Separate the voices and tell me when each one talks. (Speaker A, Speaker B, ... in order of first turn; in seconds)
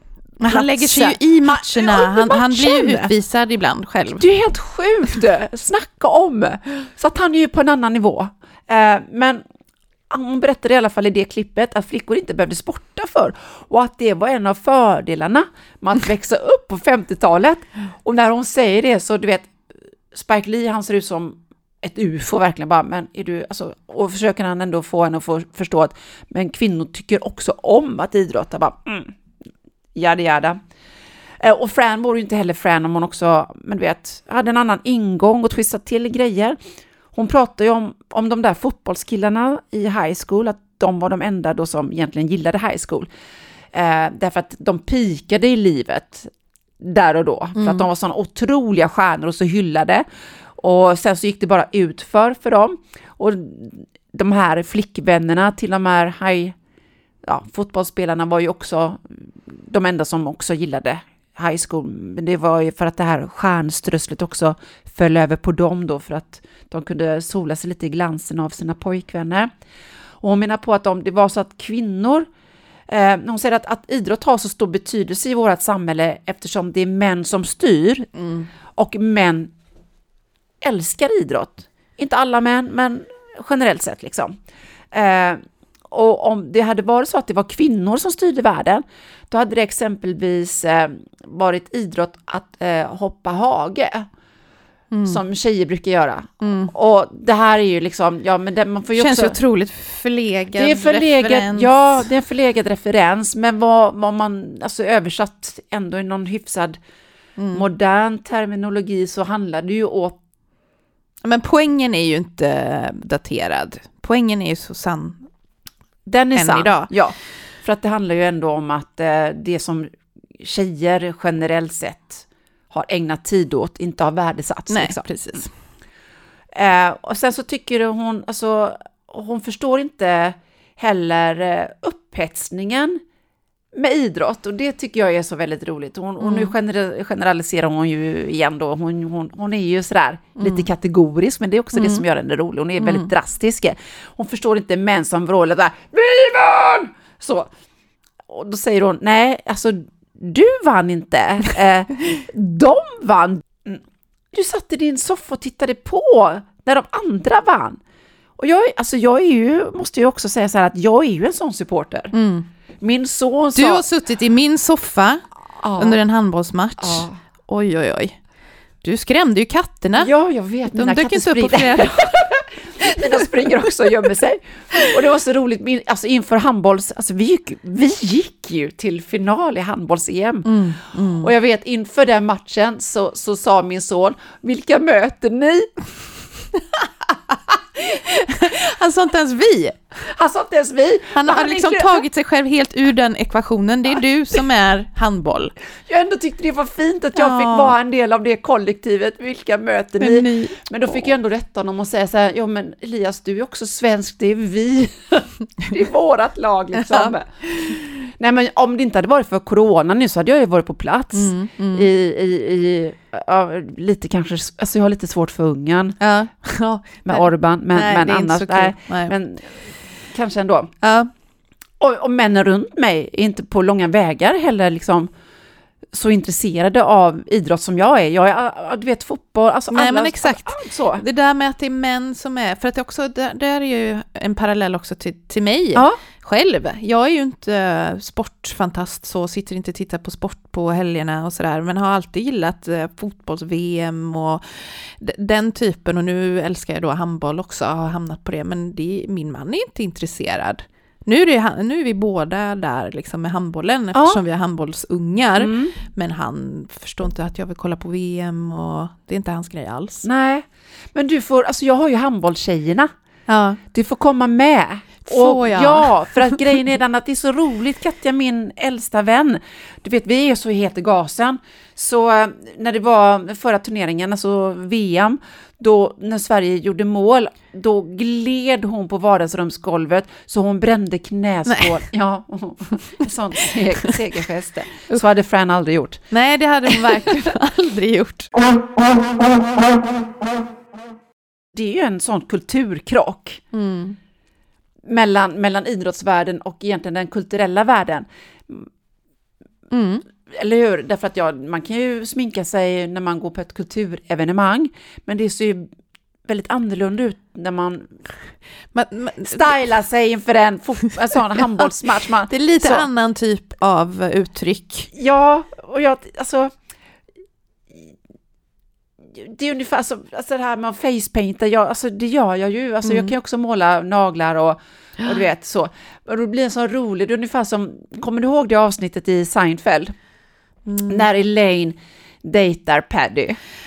Speaker A: 0.4-4.2, 47.5-47.9, 78.2-78.5, 94.9-95.2, 96.4-96.7, 99.0-102.0, 107.4-107.6, 111.2-115.3, 116.3-116.9, 124.7-125.5, 136.2-136.5, 140.4-140.7, 141.7-142.0, 142.8-143.1, 162.1-162.5, 163.6-165.2, 165.8-168.2, 168.8-170.1, 170.7-173.9, 180.4-181.3, 187.8-190.0, 191.1-195.5, 197.2-197.7, 200.0-200.6, 206.9-207.1, 211.1-211.9, 216.0-219.1, 220.8-221.1, 229.7-260.1, 263.3-263.6, 265.0-266.4, 281.4-281.8, 286.1-288.3, 293.5-294.0, 299.7-300.0, 308.7-309.6, 312.3-314.9, 322.9-323.1, 330.6-331.1
Speaker B: 0.4-3.1, 4.1-9.4, 10.1-19.6, 20.1-29.1, 29.9-30.6, 31.4-36.6, 37.1-43.1, 43.7-50.0, 50.6-56.5, 57.2-69.5, 70.2-72.3, 72.9-78.1, 78.7-79.5, 80.6-84.3, 84.9-94.1, 95.0-99.3, 100.5-106.8, 107.5-110.2, 116.0-125.0, 126.5-133.0, 133.7-147.5, 148.3-157.8, 158.4-162.1, 162.8-163.8, 165.6-166.0, 166.8-167.2, 170.0-185.7, 190.0-192.0, 195.9-216.0, 217.0-220.7, 221.8-225.1, 225.9-231.0, 253.9-254.2, 255.4-255.7, 260.0-262.9, 263.7-286.0, 291.5-293.4, 294.9-298.7, 300.3-305.7, 306.2-307.9, 309.2-312.9, 314.9-316.5, 319.1-329.9, 330.9-333.4